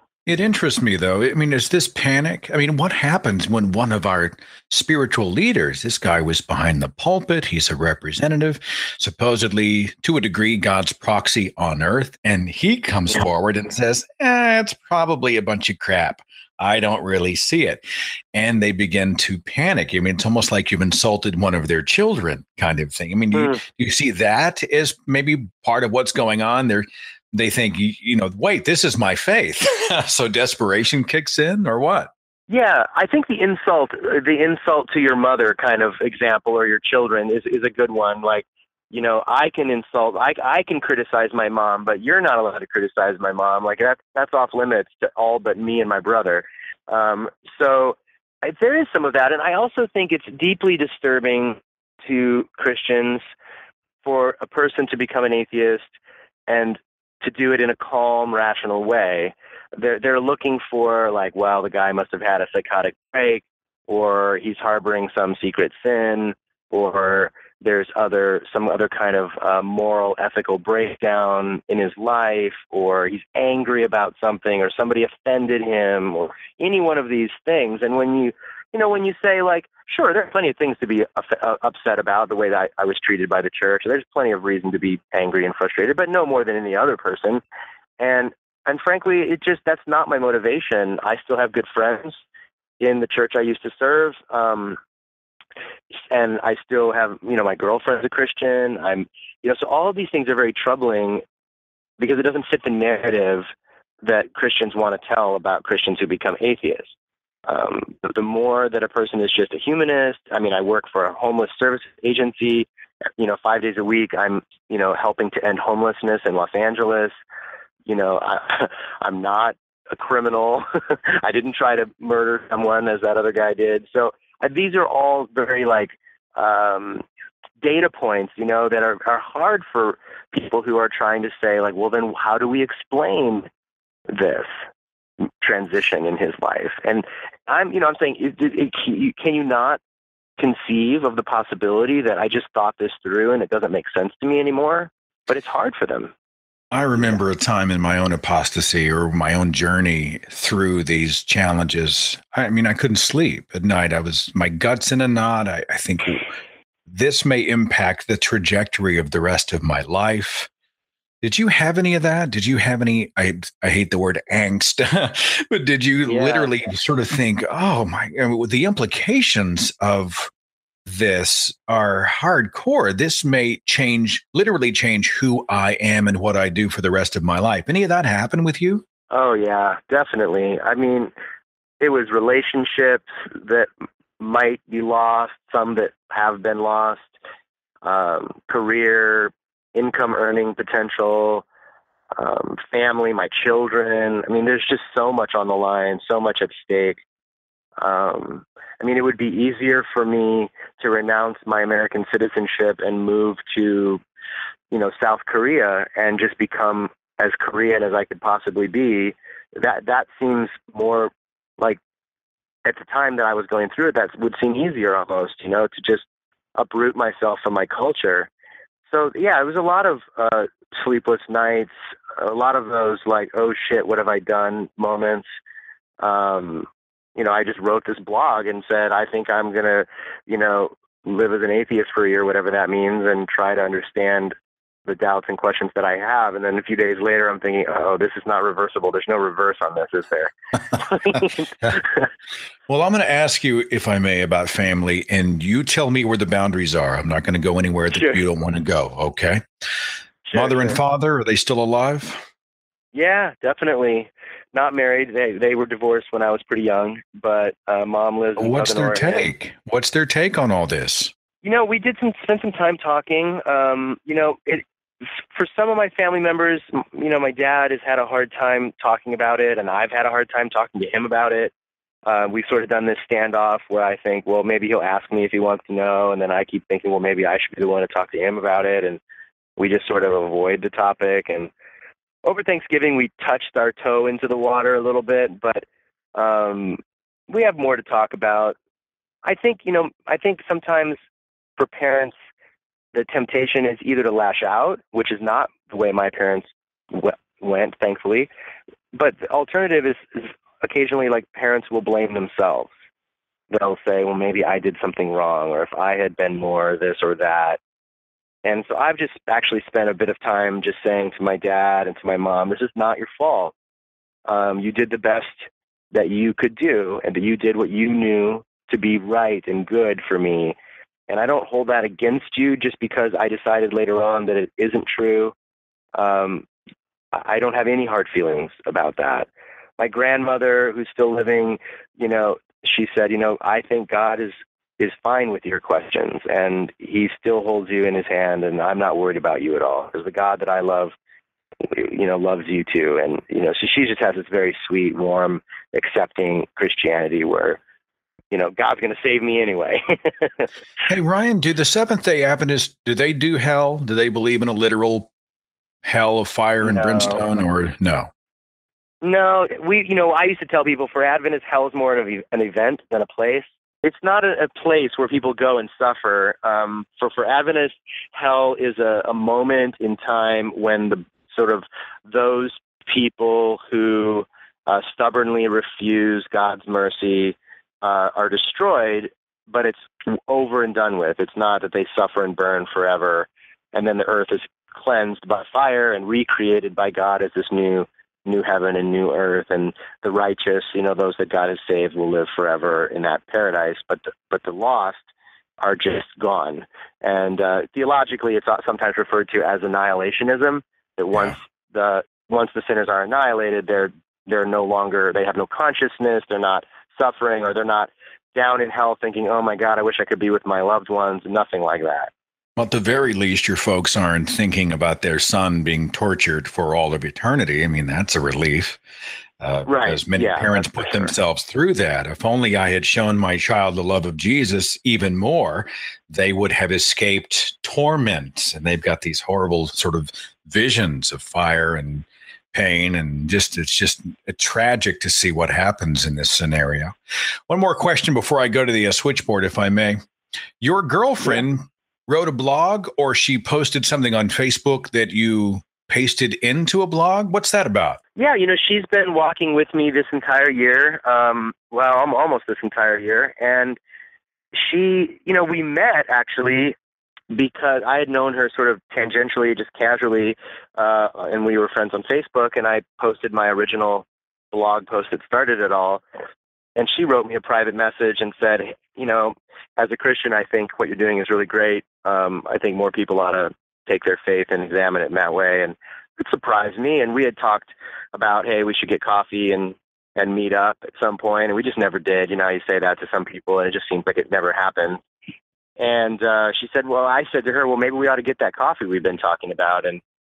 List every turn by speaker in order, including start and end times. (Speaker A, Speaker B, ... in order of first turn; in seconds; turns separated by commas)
Speaker A: 0.2-32.1, Speaker B: 23.3-23.6, Speaker B: 32.5-53.2, Speaker B: 54.0-55.9, Speaker B: 56.5-87.4, Speaker B: 88.0-92.2, Speaker B: 92.8-94.8, Speaker B: 95.9-101.2, Speaker B: 102.0-103.5, Speaker B: 104.0-106.9, Speaker B: 107.5-112.7, Speaker B: 113.2-117.1, Speaker B: 117.8-120.6, Speaker B: 121.2-127.0, Speaker B: 127.6-133.5, Speaker B: 134.1-134.5, Speaker B: 135.2-139.8, Speaker B: 140.4-146.1, Speaker A: 146.7-156.3, Speaker A: 156.9-160.5, Speaker A: 161.2-170.3, Speaker B: 166.0-166.5, Speaker A: 170.8-178.8, Speaker B: 179.1-181.1, Speaker B: 181.8-183.7, Speaker B: 184.2-187.1, Speaker B: 187.8-191.4, Speaker B: 192.2-197.0, Speaker B: 197.8-204.0, Speaker B: 204.7-211.8, Speaker B: 212.6-216.0, Speaker B: 216.6-218.3, Speaker B: 218.9-225.3, Speaker B: 226.0-234.3, Speaker B: 234.8-241.8, Speaker A: 242.7-249.4, Speaker B: 247.9-248.2, Speaker B: 250.3-250.8, Speaker A: 250.3-252.2, Speaker B: 252.9-259.3, Speaker A: 258.4-261.1, Speaker B: 261.4-264.6, Speaker B: 265.3-271.5, Speaker B: 272.1-279.0, Speaker B: 279.6-281.5, Speaker B: 282.2-288.6, Speaker B: 289.2-291.0, Speaker B: 291.6-292.1, Speaker B: 292.9-298.3, Speaker B: 298.9-302.7, Speaker B: 303.5-307.6, Speaker B: 308.4-313.5, Speaker B: 314.3-320.6, Speaker B: 321.1-325.3, Speaker B: 325.9-326.4, Speaker B: 327.1-340.9, Speaker B: 341.6-347.6, Speaker B: 348.3-350.5, Speaker A: 350.9-355.1, Speaker A: 355.8-358.1, Speaker B: 356.6-357.2, Speaker B: 359.0-395.0, Speaker B: 395.6-412.1, Speaker A: 412.6-418.8, Speaker A: 419.4-436.9, Speaker B: 419.6-421.1, Speaker A: 437.5-440.0, Speaker A: 440.6-448.0, Speaker B: 448.1-453.8, Speaker B: 454.5-456.7, Speaker B: 457.3-466.0, Speaker B: 466.8-485.0, Speaker B: 485.8-490.0